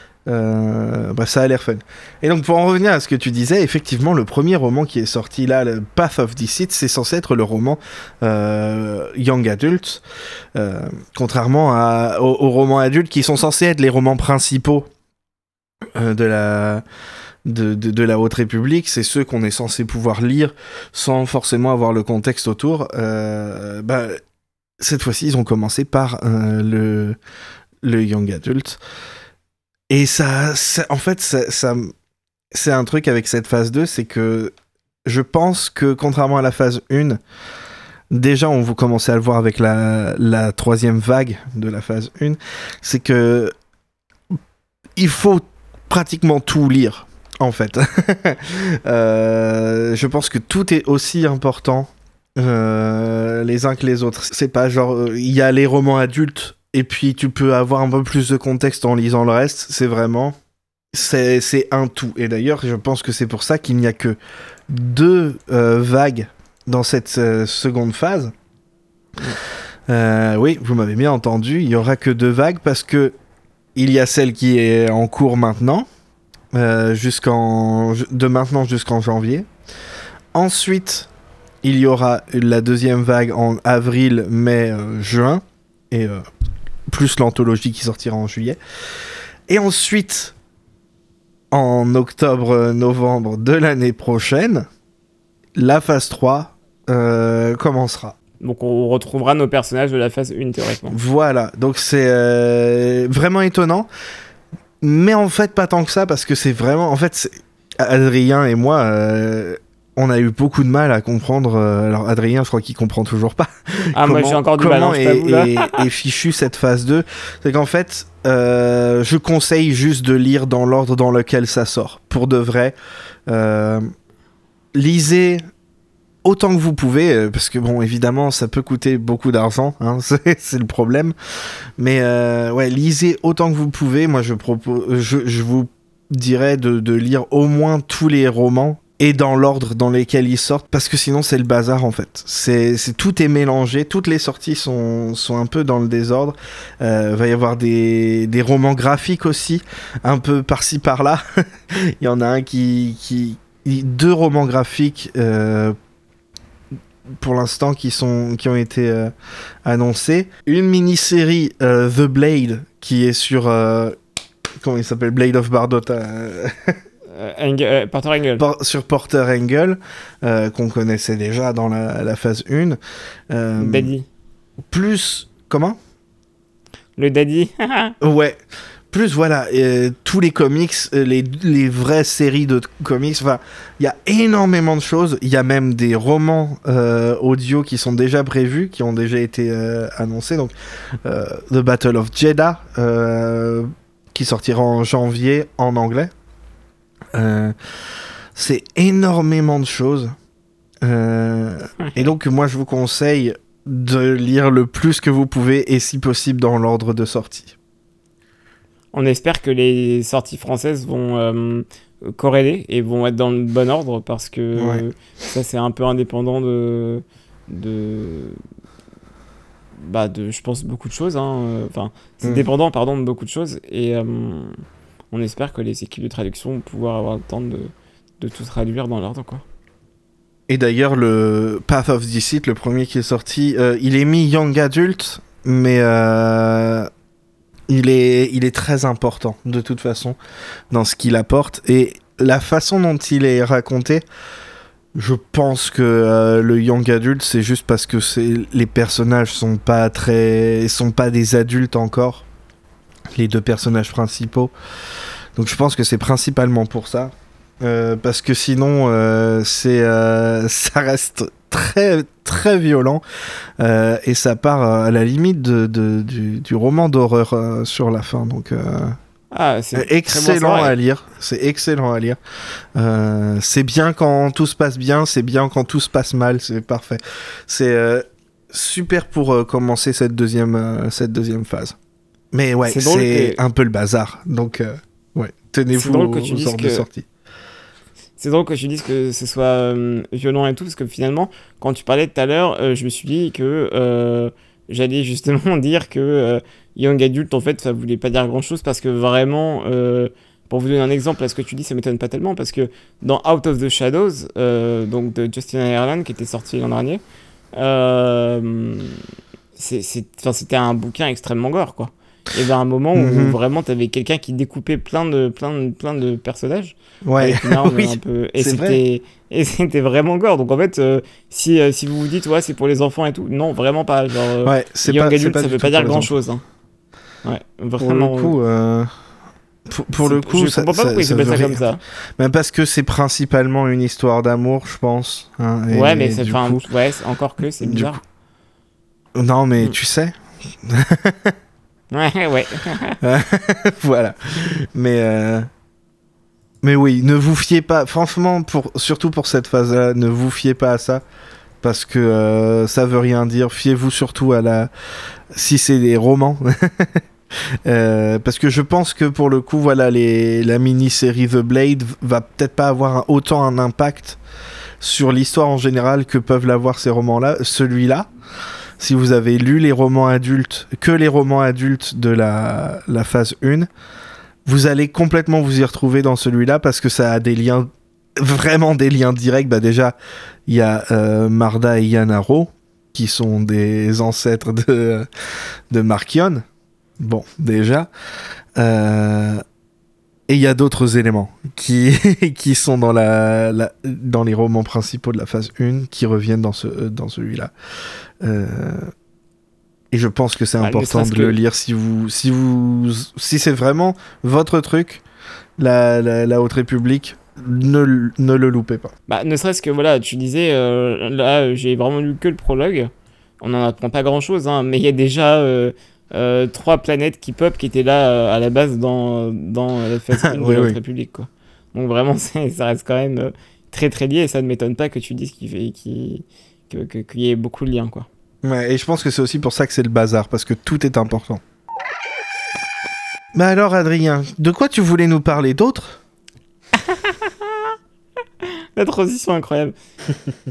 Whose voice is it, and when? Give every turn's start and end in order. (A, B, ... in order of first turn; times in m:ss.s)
0:00.3-0:10.0 A
0:10.5-0:14.9 A
0:16.0-0:16.8 A
0:17.4-0:24.2 A
0:24.8-0:27.2 A
0:27.8-0:28.8 A
0:29.9-0:31.9 A
0:32.5-0:34.5 A
0:35.0-0:37.2 A
0:38.1-0:43.5 A
0:45.0-1:00.3 A
1:00.9-1:04.2 A
1:04.7-1:08.3 A
1:09.9-1:13.1 A
1:13.8-1:15.8 A
1:16.5-1:19.5 A
1:20.3-1:21.1 A
1:21.6-1:26.2 A
1:26.9-1:28.6 A
1:29.5-1:30.4 A
1:31.5-1:34.6 A
1:35.6-1:38.1 A
1:38.4-1:41.0 B
1:40.9-1:43.9 A
1:44.8-2:02.8 A
1:53.9-1:55.8 B
2:03.3-2:03.8 A
2:04.7-2:05.4 A
2:06.2-2:11.1 A
2:11.8-2:35.8 A
2:37.2-2:39.1 A
2:39.6-2:44.0 A
2:44.6-2:46.8 A
2:47.1-2:48.4 B
2:48.4-2:52.8 A
2:53.3-2:53.9 A
2:53.6-2:54.0 B
2:54.7-2:55.8 A
2:57.0-2:57.9 B
2:58.0-2:58.4 A
2:58.9-3:10.5 A
3:11.0-3:16.1 A
3:17.1-3:17.5 A
3:18.3-3:20.1 A
3:20.8-3:27.5 A
3:28.9-3:38.4 B
3:34.6-3:34.8 A
3:39.8-3:44.6 B
3:42.2-3:42.5 A
3:45.1-3:49.4 B
3:50.5-3:56.9 A
3:57.7-4:00.2 A
4:00.7-4:04.0 A
4:04.9-4:12.2 A
4:13.1-4:14.5 A
4:15.4-4:23.0 A
4:23.6-4:29.0 A
4:29.3-4:30.7 B
4:29.7-4:32.2 A
4:32.8-4:41.8 A
4:42.3-4:47.1 A
4:42.6-4:43.4 B
4:45.7-4:46.8 B
4:48.2-5:07.0 B
5:07.5-5:09.0 B
5:09.6-5:26.4 B
5:12.9-5:13.4 A
5:17.0-5:18.8 A
5:24.4-5:26.2 A
5:27.2-5:28.3 B
5:27.8-5:28.9 A
5:29.7-5:36.6 A
5:30.0-5:31.8 B
5:35.7-5:38.0 B
5:37.4-5:38.0 A
5:39.2-5:41.3 A
5:41.9-5:43.0 B
5:43.0-5:45.5 A
5:46.6-5:51.0 A
5:51.6-5:54.7 A
5:55.3-5:57.0 A
5:57.6-6:04.2 A
6:04.8-6:08.1 A
6:08.8-6:13.7 A
6:14.4-6:19.9 A
6:20.5-6:25.1 A
6:25.7-6:26.4 A
6:27.0-6:27.9 A
6:28.6-6:29.4 A
6:30.3-6:37.5 A
6:38.2-6:38.9 A
6:39.9-6:45.0 A
6:40.6-6:41.4 B
6:45.6-6:48.9 A
6:49.1-7:08.1 B
7:00.2-7:00.8 A
7:08.4-7:11.4 A
7:13.3-7:16.0 A
7:16.8-7:17.7 B
7:18.8-7:19.7 B